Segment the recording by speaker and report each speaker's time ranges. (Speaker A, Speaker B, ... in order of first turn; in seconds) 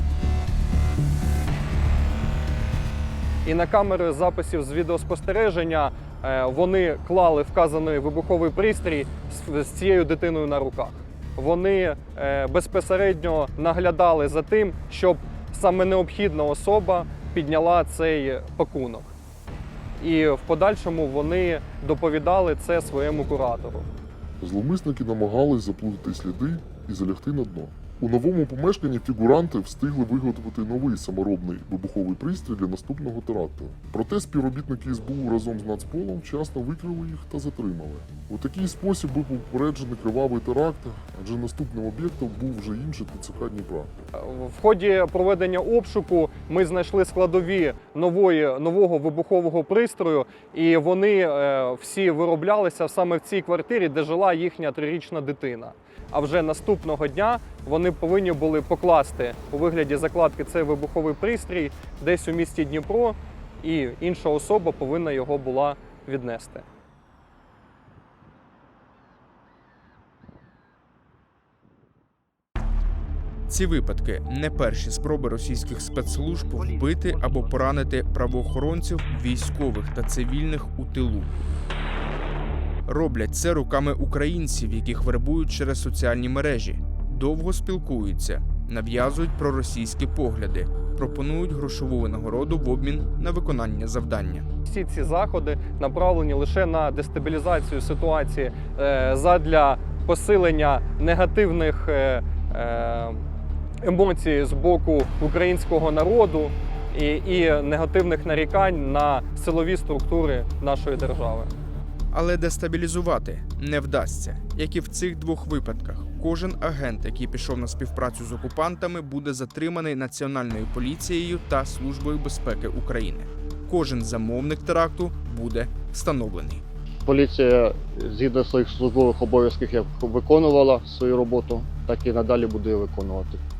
Speaker A: 3.5-19.1, 20.0-23.9, 44.2-66.6, 94.7-103.2, 103.8-111.5
Speaker B: 24.4-43.9
Speaker C: 73.5-81.3, 82.9-94.5, 112.1-126.6
Speaker D: 127.1-133.4